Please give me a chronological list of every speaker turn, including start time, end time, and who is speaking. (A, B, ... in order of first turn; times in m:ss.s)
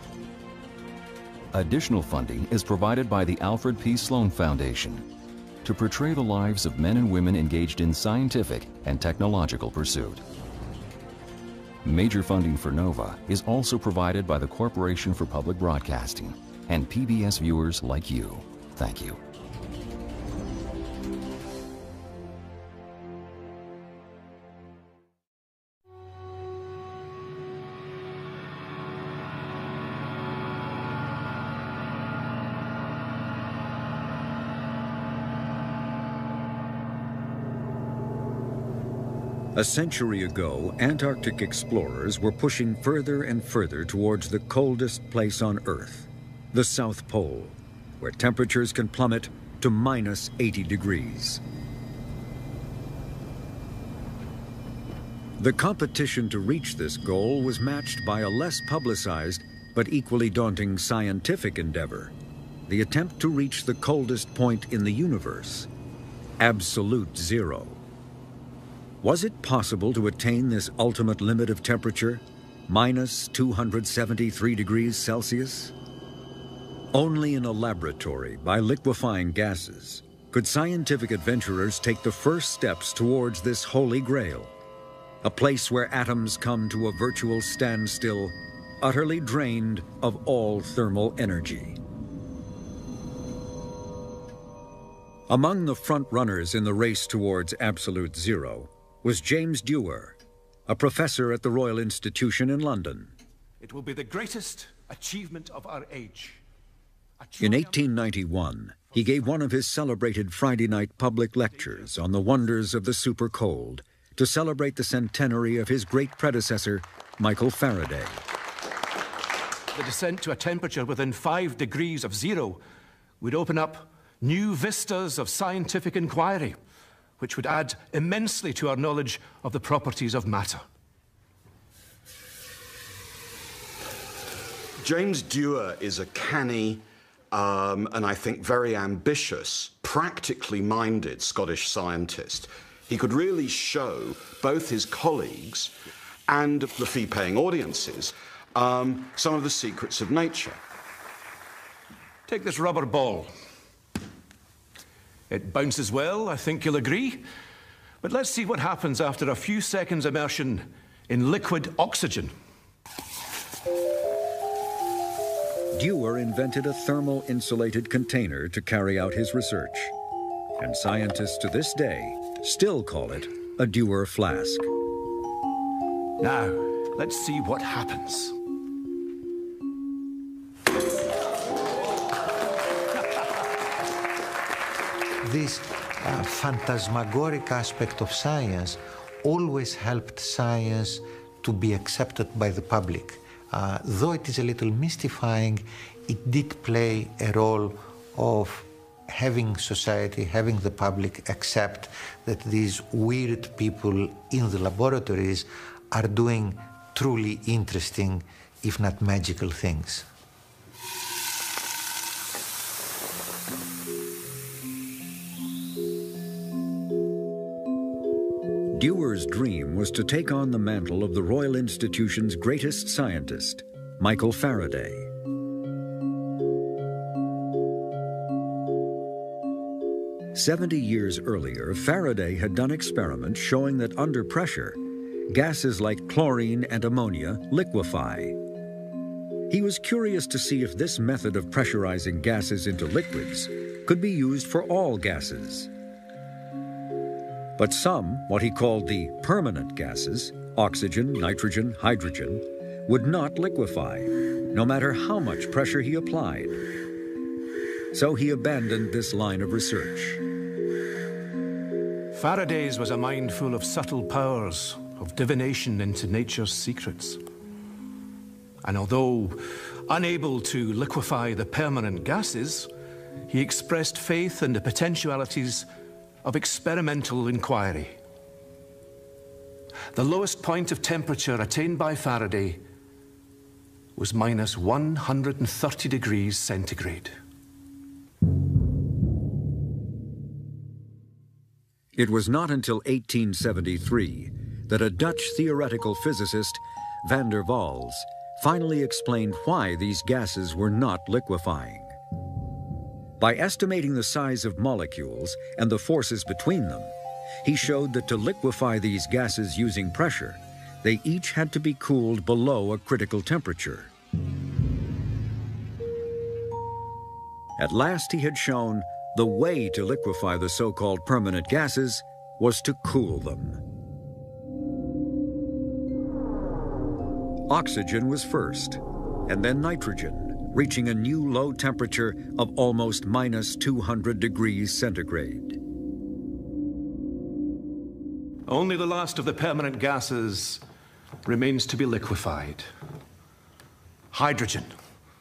0:01.5-0:05.0 A
0:05.6-0:10.2 A
0:11.8-0:19.2 A
0:39.6-0:51.4 B
0:55.4-1:02.1 B
1:02.7-1:05.7 B
1:06.4-1:07.8 B
1:09.0-1:15.7 B
1:16.9-1:24.6 B
1:25.2-1:31.8 B
1:35.3-1:40.2 B
1:40.7-1:43.1 B
1:43.6-1:46.4 C
1:47.2-1:47.7 C
1:47.4-1:58.2 B
1:59.7-2:02.6 C
2:03.2-2:06.6 C
2:07.2-2:10.6 C
2:14.8-2:25.7 D
2:26.3-2:30.6 D
2:32.3-2:33.3 C
2:35.3-2:37.2 C
2:38.0-2:42.3 C
2:45.7-2:49.9 B
2:50.6-2:54.7 B
2:56.2-2:58.4 C
3:05.2-3:30.1 E
3:38.7-3:45.1 B
3:50.3-3:58.4 B
3:59.5-4:05.7 B
4:07.6-4:16.6 B
4:17.9-4:20.2 B
4:22.1-4:27.2 C
4:28.6-4:32.7 C
4:33.3-4:35.7 C
4:36.2-4:38.0 C
4:39.9-4:42.6 C
4:44.0-4:47.2 C
4:52.0-5:02.0 B
5:03.2-5:06.9 B
5:07.4-5:13.9 B
5:17.6-5:23.6 B
5:27.5-5:35.6 B
5:38.5-5:40.6 C
5:41.2-5:42.7 C
5:44.1-5:44.7 C